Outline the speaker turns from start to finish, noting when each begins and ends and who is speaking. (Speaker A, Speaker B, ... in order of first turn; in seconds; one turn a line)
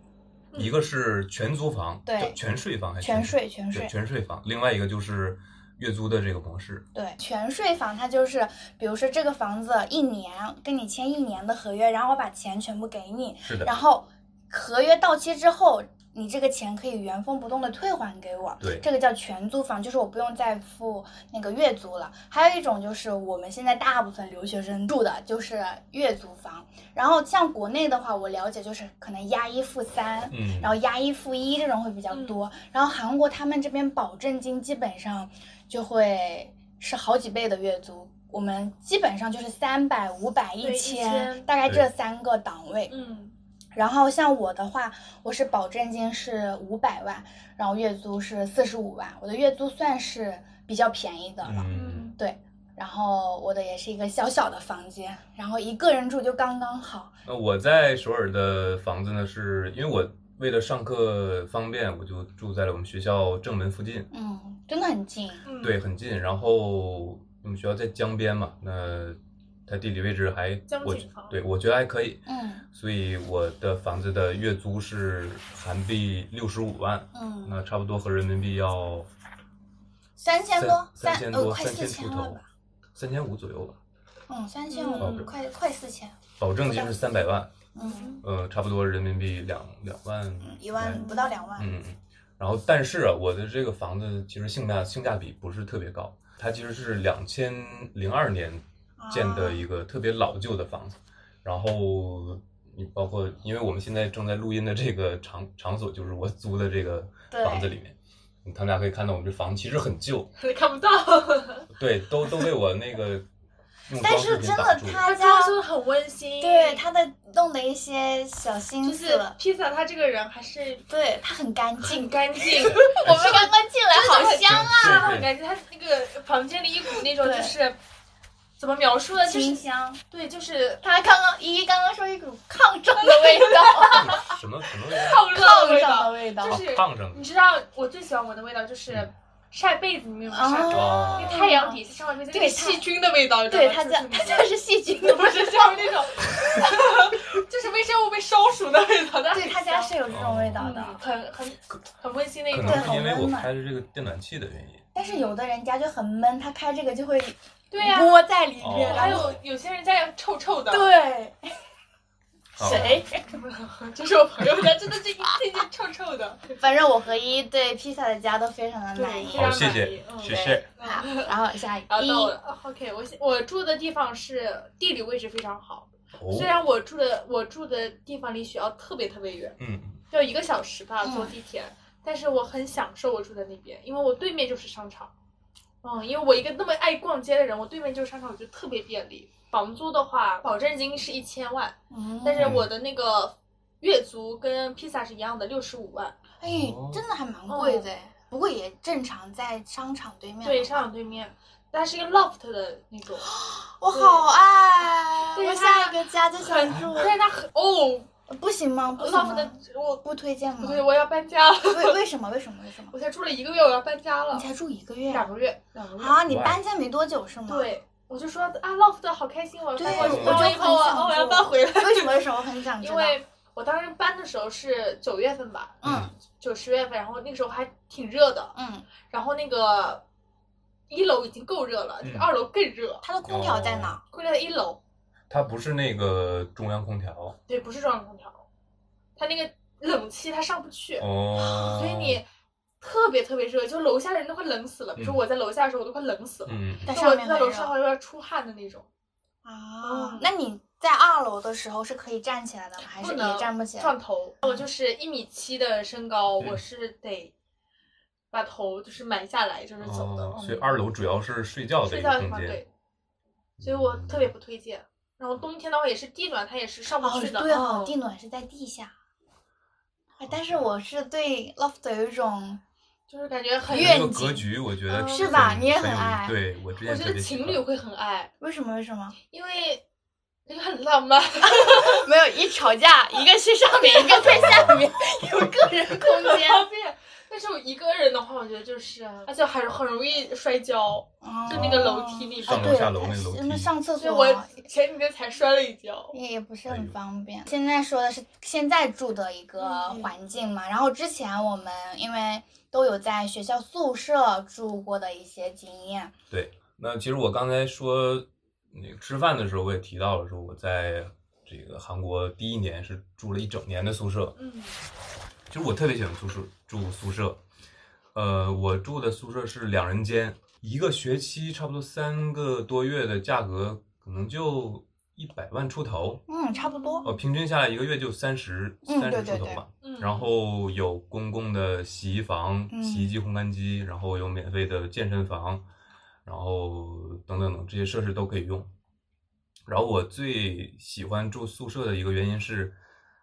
Speaker A: 0.5-0.8
Speaker B: 0.5-6.8
Speaker C: 2.0-2.4
Speaker C: 3.0-3.9
Speaker C: 6.9-42.9
Speaker B: 13.4-13.7
Speaker B: 30.3-30.7
Speaker A: 32.1-32.4
Speaker A: 40.6-41.5
Speaker A: 42.9-43.4
Speaker C: 43.7-57.1
Speaker B: 51.4-52.1
Speaker A: 51.7-52.1
Speaker B: 57.2-64.1
Speaker C: 64.1-65.4
Speaker A: 65.4-65.8
Speaker B: 65.6-79.1
Speaker A: 70.7-71.4
Speaker C: 72.2-72.6
Speaker C: 77.1-77.6
Speaker C: 80.2-82.5
Speaker B: 80.5-82.4
Speaker B: 82.9-83.8
Speaker C: 84.3-87.0
Speaker A: 84.7-85.3
Speaker B: 85.0-85.3
Speaker B: 86.4-87.6
Speaker C: 87.7-88.2
Speaker A: 87.8-88.2
Speaker B: 88.2-91.0
Speaker C: 90.4-91.7
Speaker A: 90.9-91.5
Speaker B: 91.6-110.3
Speaker C: 99.0-99.7
Speaker C: 107.3-107.7
Speaker A: 110.4-111.7
Speaker B: 111.7-113.2
Speaker B: 113.9-115.0
Speaker C: 114.0-115.5
Speaker A: 115.0-116.9
Speaker C: 116.4-119.4
Speaker A: 118.8-120.9
Speaker C: 120.9-125.2
Speaker A: 121.8-127.8
Speaker B: 123.0-123.5
Speaker B: 124.5-125.3
Speaker C: 127.2-127.5
Speaker A: 128.6-130.8
Speaker C: 129.2-130.0
Speaker C: 130.8-134.2
Speaker A: 133.0-134.3
Speaker B: 133.9-135.3
Speaker A: 134.9-149.9
Speaker C: 135.2-136.6
Speaker B: 136.4-137.2
Speaker C: 140.3-142.9
Speaker B: 140.7-141.4
Speaker C: 143.5-146.3
Speaker C: 149.3-151.0
Speaker B: 150.1-150.8
Speaker A: 150.6-153.0
Speaker B: 152.5-154.9
Speaker C: 152.6-153.5
Speaker C: 154.9-159.3
Speaker A: 155.0-155.4
Speaker A: 157.7-158.2
Speaker B: 158.6-159.4
Speaker A: 158.9-160.9
Speaker C: 160.7-161.5
Speaker B: 162.6-163.0
Speaker C: 162.6-163.2
Speaker A: 162.6-166.5
Speaker C: 166.6-169.7
Speaker A: 168.9-171.3
Speaker B: 169.3-170.7
Speaker C: 170.2-172.3
Speaker A: 171.9-179.6
Speaker B: 176.1-176.6
Speaker B: 179.6-180.0
Speaker A: 180.1-185.1
Speaker C: 181.0-181.3
Speaker A: 185.8-196.2
Speaker C: 191.9-192.6
Speaker B: 192.4-192.7
Speaker C: 196.4-200.9
Speaker B: 196.4-197.0
Speaker A: 197.5-197.9
Speaker A: 200.4-203.3
Speaker C: 203.2-207.2
Speaker A: 203.9-204.2
Speaker A: 205.3-208.1
Speaker C: 208.3-210.9
Speaker A: 209.0-210.0
Speaker A: 210.6-212.0
Speaker C: 211.7-212.9
Speaker A: 212.9-214.5
Speaker C: 214.3-215.3
Speaker A: 215.1-216.2
Speaker C: 216.0-217.7
Speaker B: 216.2-216.6
Speaker A: 217.5-230.0
Speaker C: 219.8-223.2
Speaker B: 219.8-220.5
Speaker B: 225.8-226.1
Speaker C: 228.5-228.9
Speaker A: 230.9-233.0
Speaker B: 232.0-232.3
Speaker C: 233.0-234.0
Speaker B: 233.2-234.0
Speaker A: 234.1-234.8
Speaker B: 235.3-237.4
Speaker A: 237.5-238.4
Speaker A: 239.2-242.3
Speaker B: 241.0-242.2
Speaker A: 242.8-248.9
Speaker B: 246.4-246.9
Speaker C: 246.9-247.7
Speaker C: 249.4-254.6
Speaker A: 249.8-250.3
Speaker A: 252.8-257.3
Speaker A: 258.3-260.8
Speaker B: 259.8-262.6
Speaker A: 261.8-262.7
Speaker B: 263.6-264.3
Speaker A: 263.6-267.9
Speaker C: 267.0-268.9
Speaker C: 270.2-272.6
Speaker B: 270.3-270.6
Speaker A: 273.1-274.1
Speaker B: 273.7-277.6
Speaker C: 273.7-274.5
Speaker A: 274.9-275.4
Speaker C: 275.1-276.4
Speaker A: 276.8-278.3
Speaker C: 278.4-279.1
Speaker A: 279.3-279.8
Speaker A: 280.5-282.1
Speaker C: 281.4-286.7
Speaker A: 283.8-284.7
Speaker B: 284.2-284.9
Speaker A: 285.8-292.9
Speaker C: 291.2-294.6
Speaker B: 291.5-293.7
Speaker A: 294.0-296.1
Speaker C: 296.1-306.1
Speaker B: 296.7-296.9
Speaker A: 299.6-300.1
Speaker B: 306.3-314.4
Speaker A: 314.4-314.8
Speaker B: 315.5-317.4
Speaker B: 318.1-326.2
Speaker C: 326.3-327.1
Speaker A: 326.5-327.2
Speaker B: 327.0-335.6
Speaker C: 328.8-329.6
Speaker A: 329.8-330.3
Speaker C: 332.7-333.1
Speaker B: 336.2-338.7
Speaker B: 339.7-342.7